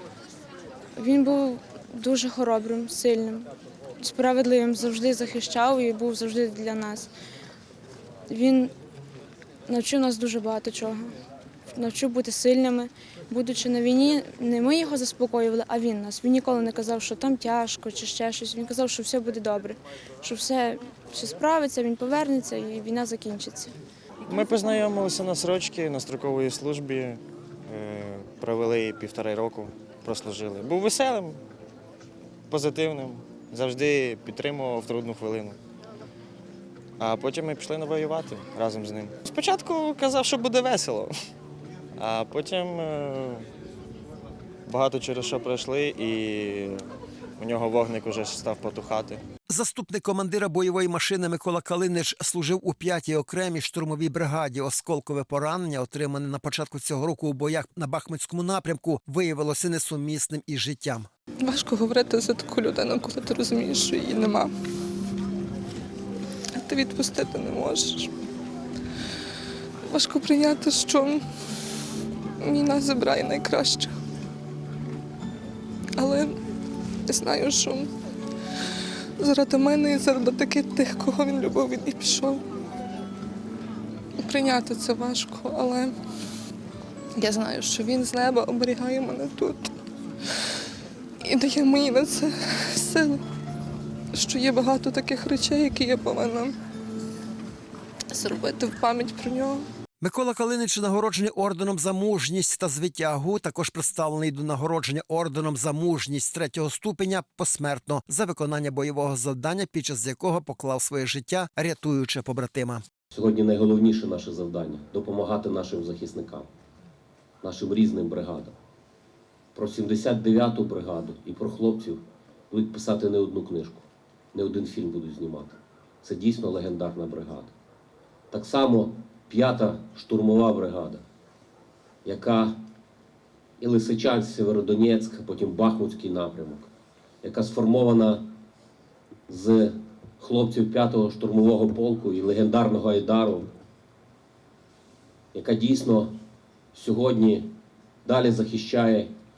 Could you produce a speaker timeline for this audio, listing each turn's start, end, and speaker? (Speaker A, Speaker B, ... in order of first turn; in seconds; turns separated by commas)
Speaker A: 0.9-3.5, Speaker A: 4.0-7.1, Speaker A: 8.3-8.7, Speaker A: 9.7-11.1, Speaker A: 11.7-23.7, Speaker B: 24.2-31.4, Speaker B: 32.5-35.6, Speaker B: 37.0-41.1, Speaker B: 42.0-43.5, Speaker B: 44.6-49.2, Speaker C: 49.5-61.1, Speaker D: 61.4-64.5, Speaker D: 66.5-68.1, Speaker D: 69.8-71.2, Speaker D: 72.4-73.9, Speaker D: 76.0-76.4, Speaker D: 77.1-77.9, Speaker D: 79.2-82.4, Speaker D: 84.2-86.0, Speaker D: 87.2-89.7, Speaker D: 91.2-93.2, Speaker D: 94.1-96.5, Speaker D: 98.1-99.7, Speaker C: 100.0-112.8, Speaker E: 113.1-116.5, Speaker E: 117.4-118.5, Speaker E: 119.5-127.5, Speaker E: 128.3-131.0, Speaker E: 132.0-132.6, Speaker E: 133.6-136.7, Speaker E: 137.2-138.3, Speaker E: 139.3-143.5, Speaker E: 145.3-146.1, Speaker E: 146.7-147.5, Speaker E: 148.0-149.1